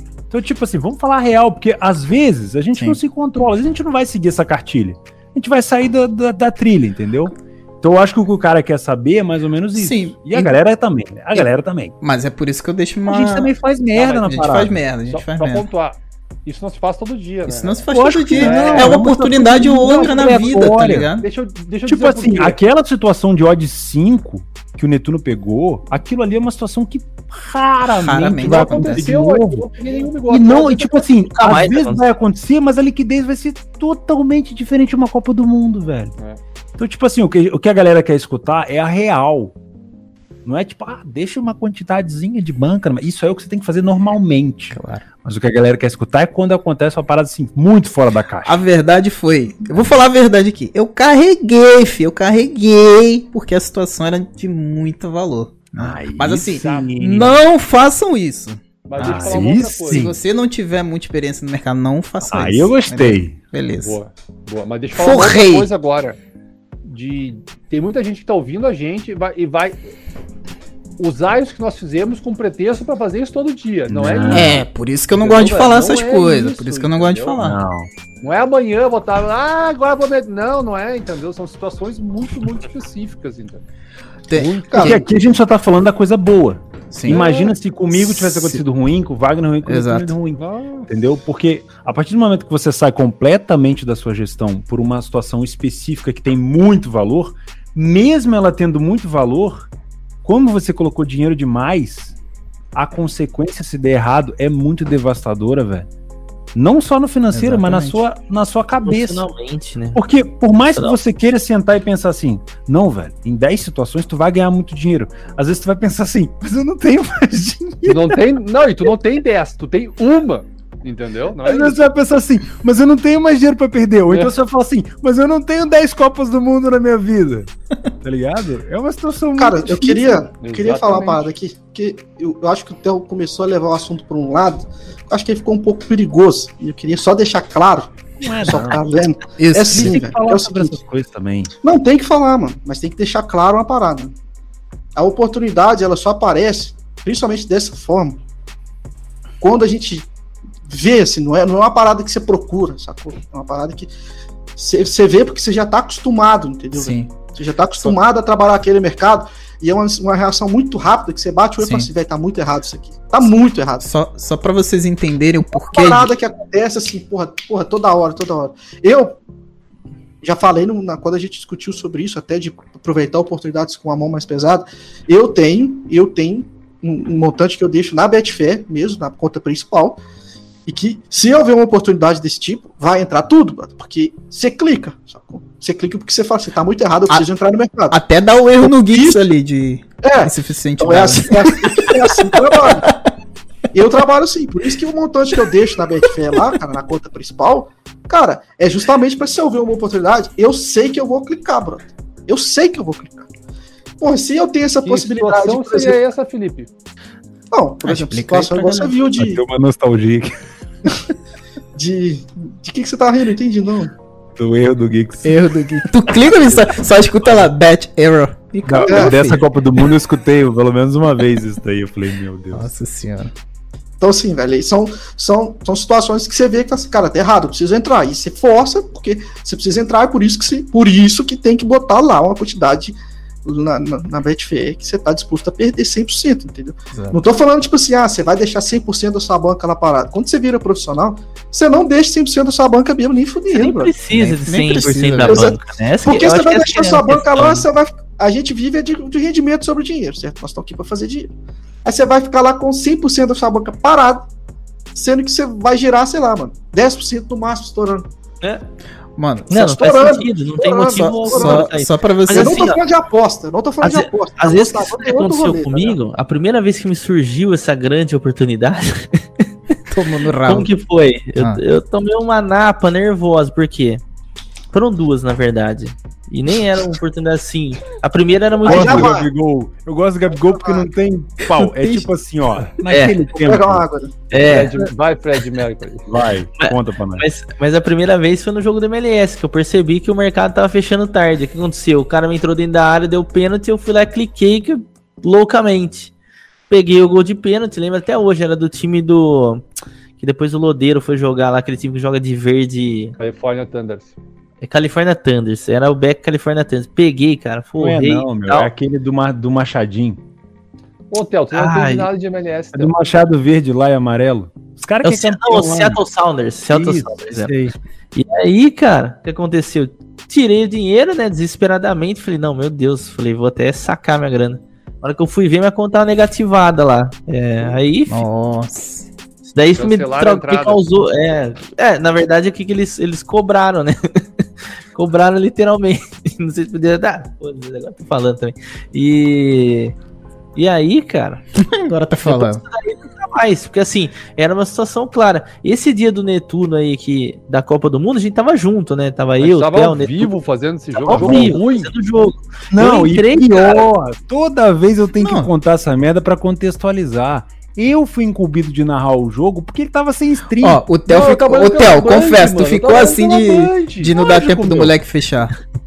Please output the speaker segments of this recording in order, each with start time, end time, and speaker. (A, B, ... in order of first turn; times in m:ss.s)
0:00.3-0:11.9 A
0:09.8-0:10.6 B
0:12.0-0:13.5 B
0:13.0-0:14.8 A
0:14.0-0:14.4 C
0:14.3-0:15.6 B
0:15.1-0:19.1 C
0:17.4-0:21.2 B
0:17.9-0:21.1 A
0:19.8-0:22.6 C
0:21.9-0:29.7 A
0:27.8-0:29.1 B
0:28.2-0:31.0 C
0:30.3-0:36.1 A
0:31.4-0:32.0 D
0:36.8-0:39.5 A
0:40.4-0:48.6 A
0:44.7-0:45.0 B
0:48.4-1:04.0 B
0:55.8-0:57.4 A
0:56.5-0:57.0 C
0:58.8-1:00.1 C
0:59.0-1:00.1 A
1:02.3-1:03.4 A
1:03.8-1:06.2 C
1:04.9-1:05.7 B
1:06.8-1:09.9 C
1:11.0-1:17.4 C
1:13.9-1:14.6 A
1:14.3-1:17.6 B
1:17.4-1:17.9 A
1:18.2-1:23.6 C
1:24.3-1:25.0 B
1:24.4-1:24.8 C
1:24.6-1:39.7 A
1:24.7-1:25.0 E
1:26.9-1:27.2 B
1:27.1-1:27.5 C
1:27.9-1:28.6 B
1:29.6-1:30.2 B
1:30.4-1:30.9 C
1:40.2-1:42.1 A
1:42.7-1:45.9 A
1:46.5-1:49.2 A
1:47.3-1:48.0 B
1:48.8-1:50.0 D
1:49.9-1:58.2 A
1:57.8-2:01.8 C
2:01.4-2:07.5 A
2:08.0-2:10.2 A
2:09.4-2:20.8 E
2:10.4-2:11.3 C
2:18.2-2:18.8 A
2:19.4-2:20.0 B
2:19.6-2:21.5 A
2:21.6-2:24.1 E
2:25.0-2:28.2 E
2:29.4-2:30.1 E
2:30.7-2:33.9 E
2:34.6-2:43.9 E
2:36.7-2:37.1 B
2:41.6-2:41.9 B
2:43.8-2:46.1 B
2:45.5-2:49.2 E
2:50.2-3:00.0 E
3:00.6-3:08.0 E
3:07.9-3:13.1 B
3:08.6-3:09.3 E
3:10.0-3:12.9 E
3:13.7-3:23.3 E
3:24.0-3:26.0 E
3:24.8-3:26.7 C
3:27.5-3:29.4 E
3:27.8-3:28.9 B
3:29.2-3:30.3 A
3:31.7-3:33.9 E
3:34.4-3:35.3 A
3:35.2-3:39.4 B
3:38.7-3:42.7 A
3:38.9-3:39.1 E
3:42.5-3:43.3 B
3:44.0-4:03.9 E
3:56.9-3:57.2 B
4:03.5-4:07.7 D
4:04.1-4:05.5 B
4:05.2-4:11.3 E
4:11.8-4:14.3 E
4:14.9-4:18.0 E
4:19.2-4:19.8 B
4:19.5-4:22.8 D
4:19.6-4:21.7 E
4:20.9-4:22.7 B
4:22.3-4:26.0 E
4:23.8-4:29.4 D
4:29.9-4:30.7 B
4:30.4-4:34.0 D
4:34.7-4:39.1 D
4:38.6-4:39.3 E
4:38.6-4:43.8 A
4:40.5-4:40.9 E
4:41.5-4:42.1 B
4:42.9-4:43.2 D
4:43.4-4:44.1 E
4:44.3-4:44.8 D
4:44.4-4:46.1 C
4:46.1-4:47.2 A
4:46.6-4:56.1 D
4:56.7-4:59.6 D
5:00.2-5:03.1 D
5:03.2-5:04.2 C
5:04.6-5:08.7 D
5:07.8-5:10.2 A
5:11.1-5:12.9 C
5:11.5-5:12.1 D
5:12.7-5:16.0 A
5:15.0-5:17.5 D
5:16.7-5:17.7 A
5:18.1-5:28.2 D
5:28.1-5:29.1 B
5:29.4-5:34.2 D
5:29.8-5:30.8 C
5:34.9-5:39.9 D
5:40.6-5:41.4 D
5:41.6-5:42.6 B
5:42.2-5:50.4 D
5:49.4-5:51.9 C
5:50.9-5:53.8 D
5:51.1-5:51.5 A
5:52.7-6:00.9 A
5:55.2-5:55.5 B
6:00.6-6:05.5 B
6:01.0-6:04.4 C
6:04.3-6:04.9 A